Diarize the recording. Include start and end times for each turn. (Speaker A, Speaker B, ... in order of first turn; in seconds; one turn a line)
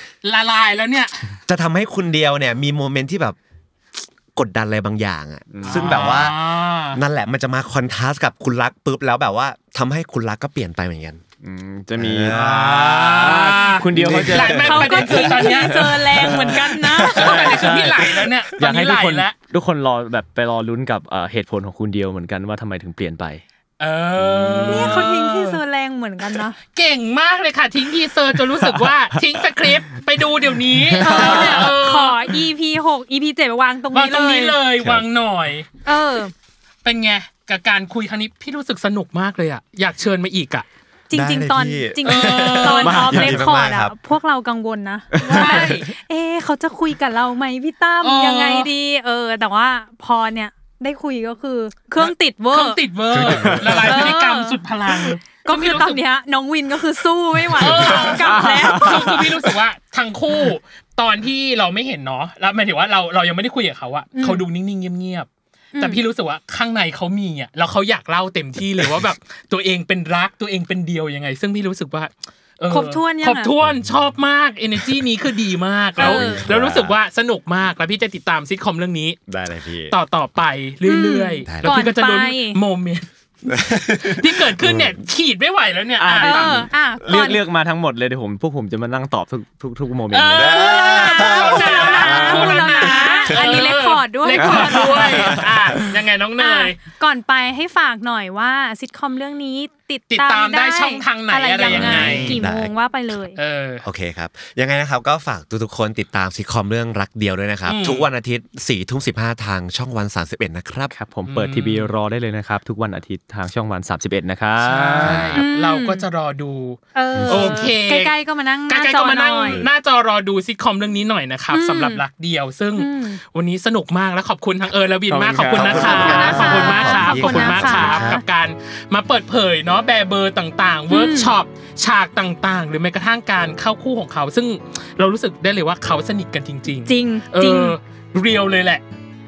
Speaker A: 0.2-1.4
Speaker B: 1.5-3.4
Speaker B: 4.3-11.2
Speaker C: 5.5-6.3
Speaker A: 5.6-7.0
Speaker C: 11.4-15.0
Speaker B: 12.0-15.3
Speaker A: 12.3-16.4
Speaker D: 14.5-17.7
Speaker C: 16.1-23.4
Speaker A: 17.0-19.3
Speaker B: 17.7-18.2
Speaker A: 23.8-25.6
Speaker B: 24.2-24.9
Speaker D: 24.7-26.6
Speaker A: 26.6-32.4
Speaker D: 31.0-34.6
Speaker A: 33.9-35.7
Speaker B: 34.8-35.0
Speaker D: 35.8-36.3
Speaker A: 36.8-40.6
Speaker D: 41.1-52.8
Speaker B: 41.1-44.0
Speaker A: 42.0-43.2
Speaker C: 42.9-43.4
Speaker C: 45.1-45.7
Speaker A: 45.3-45.9
Speaker A: 48.0-48.7
Speaker A: 52.0-56.0
Speaker B: 53.1-54.1
Speaker C: 53.3-53.8
Speaker D: 53.9-54.6
Speaker D: 55.3-59.2
Speaker A: 57.5-65.3
Speaker C: 57.7-59.5
Speaker D: 64.1-64.5
Speaker D: 65.7-66.0
Speaker A: 65.8-79.2
Speaker D: 72.7-73.5
Speaker D: 76.0-76.5
Speaker B: 76.0-77.0
Speaker B: 79.3-80.0
Speaker A: 79.9-83.1
Speaker D: 80.8-82.6
Speaker B: 81.5-81.8
Speaker B: 83.5-85.0
Speaker A: 84.0-86.7
Speaker C: 86.0-90.5
Speaker D: 86.2-87.4
Speaker A: 90.1-96.8
Speaker B: 90.3-92.5
Speaker D: 90.4-95.2
Speaker B: 94.4-95.8
Speaker D: 96.4-103.4
Speaker A: 100.1-102.4
Speaker B: 101.7-102.7
Speaker A: 103.3-103.8
Speaker B: 103.8-110.9
Speaker A: 107.7-108.1
Speaker C: 110.9-115.4
Speaker A: 111.2-111.9
Speaker A: 114.6-118.1
Speaker B: 115.0-115.4
Speaker D: 115.4-116.0
Speaker D: 116.9-119.7
Speaker C: 117.3-117.6
Speaker A: 118.7-138.8
Speaker D: 121.5-122.0
Speaker D: 122.8-123.2
Speaker C: 125.1-126.5
Speaker B: 125.4-128.2
Speaker D: 125.7-128.2
Speaker D: 130.9-131.3
Speaker D: 136.8-137.8